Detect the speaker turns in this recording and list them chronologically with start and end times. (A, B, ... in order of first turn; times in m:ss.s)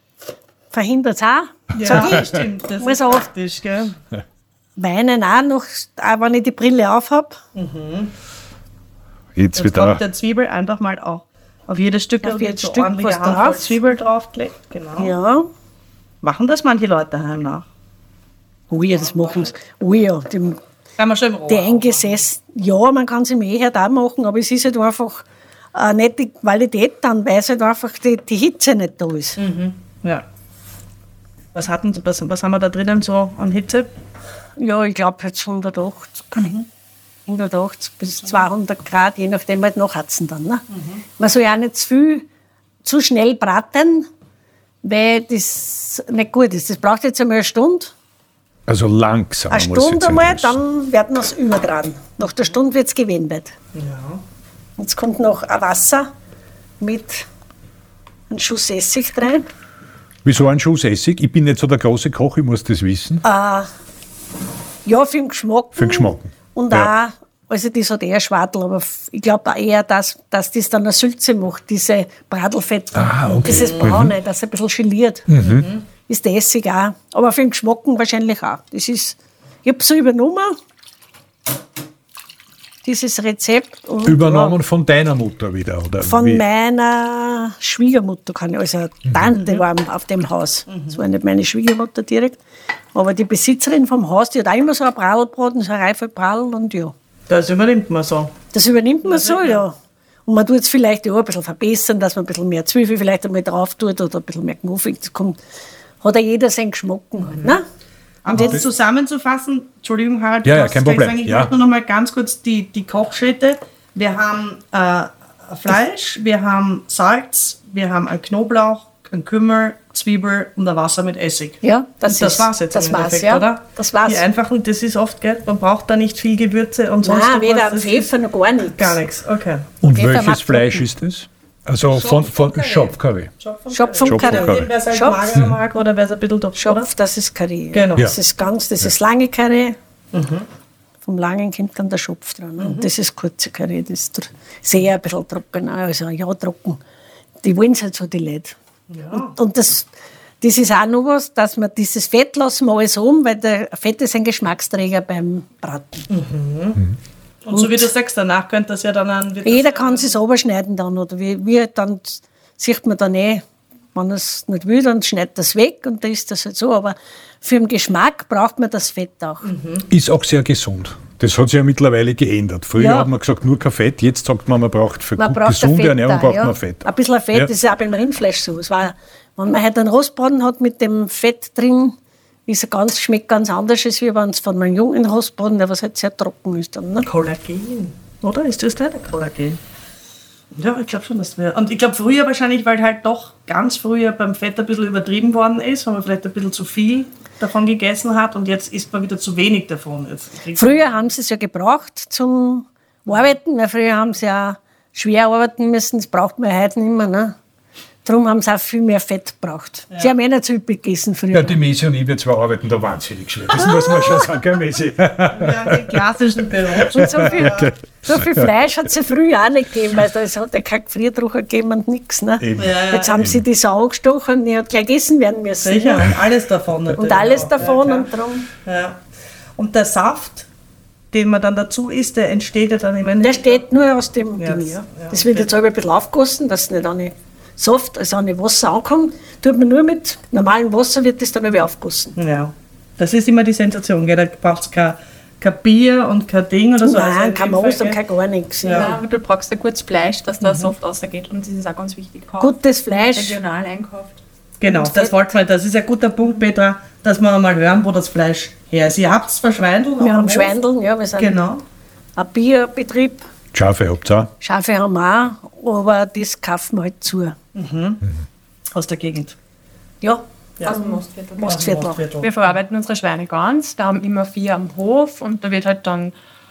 0:00.7-0:03.3 A
0:01.7-0:04.0 B
0:04.8-0:07.4 A
0:07.5-0:08.1 B
0:09.4-0:10.0 C
0:09.6-0:15.1 B
0:12.2-0:13.8 A
0:15.0-0:15.5 A
0:16.2-0:17.6 B
0:18.7-0:20.6 A
0:19.0-0:19.4 B
0:21.0-0:22.2 B
0:21.5-0:29.4 A
0:29.4-0:30.2 B
0:31.5-0:33.9 B
0:34.6-0:36.6 A
0:37.3-0:40.6 A
0:40.7-0:41.0 B
0:41.2-0:42.3 A
0:42.8-0:44.1 A
0:44.8-0:47.9 A
0:48.7-0:50.6 C
0:49.5-0:53.5 A
0:53.8-0:54.2 B
0:54.8-0:56.1 A
0:56.8-0:57.3 A
0:58.3-0:59.5 A
1:00.2-1:03.2 C
1:03.2-1:03.7 A
1:04.9-1:15.3 A
1:05.8-1:06.9 C
1:12.9-1:14.1 C
1:13.4-1:14.0 B
1:15.3-1:15.7 C
1:15.4-1:15.8 B
1:16.1-1:20.6 A
1:22.8-1:24.6 A
1:24.0-1:26.4 C
1:26.0-1:32.4 A
1:30.7-1:31.0 B
1:32.9-1:36.9 A
1:37.3-1:38.4 B
1:38.5-1:39.8 A
1:39.0-1:39.6 B
1:40.3-1:45.4 A
1:46.0-1:47.6 A
1:48.2-2:08.1 B
1:48.3-1:48.6 A
1:48.3-1:48.6 C
1:50.4-1:51.5 C
2:01.6-2:04.2 A
2:07.0-2:09.0 A
2:08.8-2:09.7 B
2:09.8-2:13.3 C
2:09.9-2:10.8 A
2:11.9-2:16.9 B
2:13.7-2:15.2 A
2:14.0-2:14.7 C
2:16.6-2:19.8 A
2:17.7-2:18.1 B
2:20.1-2:20.4 B
2:21.0-2:26.8 A
2:22.6-2:22.9 B
2:27.4-2:28.6 A
2:28.9-2:29.3 B
2:29.1-2:29.9 A
2:30.4-2:36.1 A
2:36.1-2:36.8 B
2:37.4-2:40.2 B
2:37.5-2:37.9 A
2:39.4-2:43.4 A
2:43.9-2:49.5 A
2:49.4-2:49.9 B
2:49.9-2:57.5 C
2:52.8-2:53.1 A
2:55.2-3:02.0 A
3:02.5-3:07.1 A
3:07.0-3:09.6 B
3:10.5-3:20.8 B
3:20.5-3:27.4 A
3:28.0-3:31.6 A
3:31.3-3:36.0 C
3:35.3-3:37.7 B
3:36.8-3:38.5 C
3:36.9-3:46.1 A
3:42.4-3:43.4 C
3:42.6-3:43.3 B
3:45.6-3:48.1 B
3:47.0-3:48.5 A
3:48.6-3:49.0 B
3:49.6-3:50.5 B
3:51.1-3:53.6 B
3:53.2-4:02.1 A
3:54.4-3:55.5 B
4:02.2-4:08.0 B
4:06.8-4:08.9 A
4:08.6-4:08.9 B
4:08.7-4:14.2 D
4:10.4-4:10.7 B
4:12.4-4:13.4 A
4:14.6-4:20.5 B
4:14.7-4:15.2 A
4:20.0-4:21.4 A
4:21.2-4:21.6 B
4:22.2-4:23.2 A
4:23.5-4:24.3 C
4:24.4-4:27.4 A
4:27.5-4:28.0 B
4:28.7-4:29.4 B
4:30.0-4:32.0 A
4:30.6-4:36.1 D
4:31.4-4:32.3 B